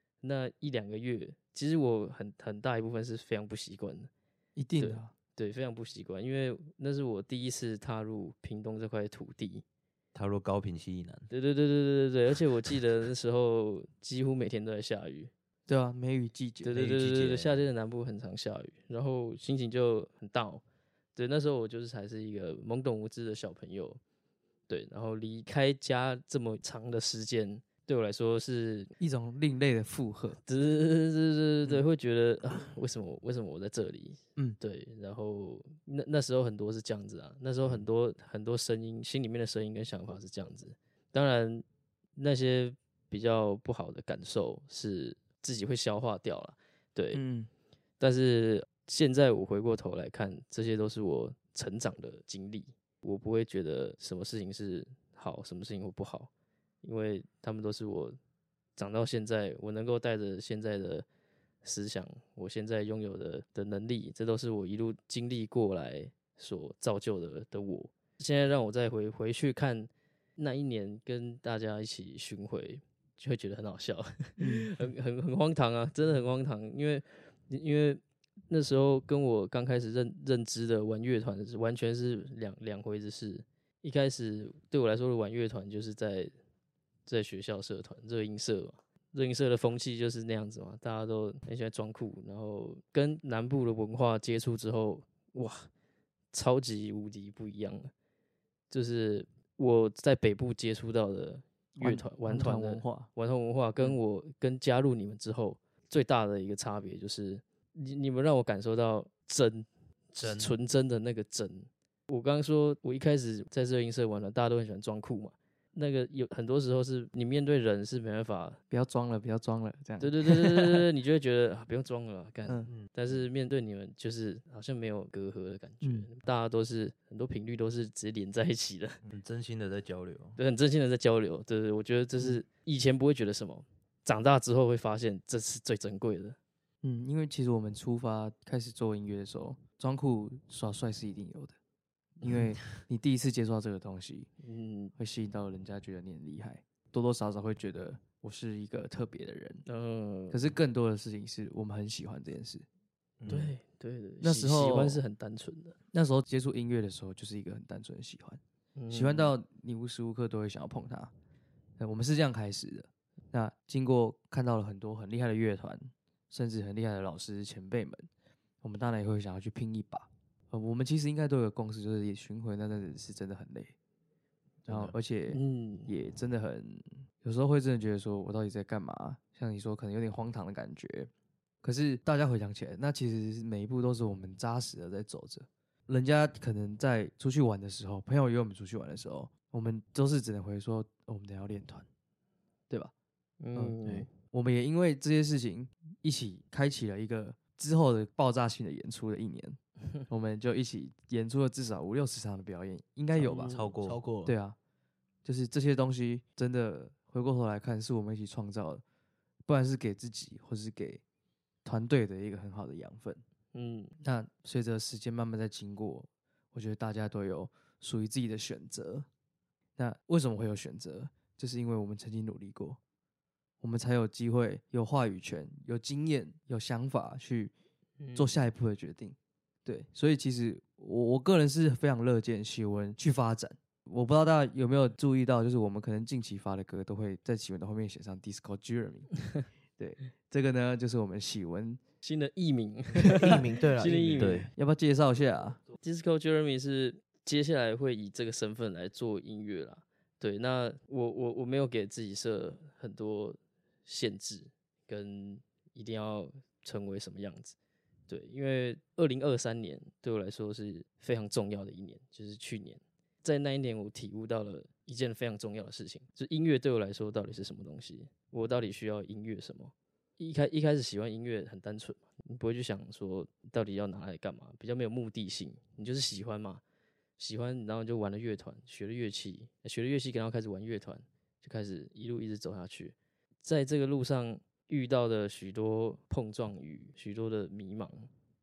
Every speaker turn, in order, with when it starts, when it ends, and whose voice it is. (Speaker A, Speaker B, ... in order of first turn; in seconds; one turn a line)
Speaker A: 0.2-4.1
Speaker B: 4.6-5.1
Speaker A: 4.8-9.6
Speaker C: 10.1-11.3
Speaker A: 11.3-15.3
Speaker B: 15.7-16.8
Speaker A: 16.6-20.6
Speaker C: 16.7-17.6
Speaker A: 21.2-24.0
Speaker A: 24.7-28.9
Speaker B: 29.0-30.4
Speaker A: 30.5-41.6
Speaker A: 42.2-47.2
Speaker B: 47.1-47.5
Speaker A: 48.0-56.3
Speaker A: 56.8-58.2
Speaker A: 58.8-61.1
Speaker A: 61.6-86.3
Speaker B: 74.4-74.7
Speaker A: 87.1-95.7
Speaker A: 96.3-97.9
Speaker A: 98.7-118.6
Speaker B: 101.8-103.1
Speaker C: 110.2-110.5
Speaker B: 118.7-120.9
Speaker A: 120.0-129.0
Speaker B: 122.5-122.7
Speaker B: 125.8-126.1
Speaker C: 129.1-130.4
Speaker A: 130.4-136.4
Speaker B: 136.8-141.6
Speaker B: 142.2-144.3
Speaker A: 144.4-144.9
Speaker B: 145.0-149.7
Speaker A: 149.7-150.4
Speaker B: 150.3-152.7
Speaker D: 153.2-153.5
Speaker A: 153.3-155.8
Speaker B: 154.2-155.0
Speaker B: 155.9-158.4
Speaker A: 158.8-159.3
Speaker B: 158.9-161.1
Speaker B: 161.8-168.1
Speaker B: 168.6-173.7
Speaker D: 174.6-175.0
Speaker B: 174.7-181.1
Speaker A: 175.3-175.9
Speaker B: 181.6-191.9
Speaker A: 193.4-194.1
Speaker B: 194.3-203.6
Speaker A: 203.2-203.7
Speaker C: 203.5-204.0
Speaker D: 203.8-204.3
Speaker B: 204.2-204.6
Speaker B: 205.2-208.8
Speaker B: 209.5-211.0
Speaker B: 211.6-213.2
Speaker A: 213.5-213.9
Speaker B: 214.0-219.1
Speaker B: 219.8-222.8
Speaker B: 223.6-227.5
Speaker A: 228.0-228.4
Speaker B: 228.2-241.8
Speaker A: 242.0-244.5
Speaker D: 243.0-244.4
Speaker C: 244.2-244.5
Speaker B: 244.6-245.6
Speaker A: 245.8-257.6
Speaker A: 258.1-276.6
Speaker A: 277.2-288.1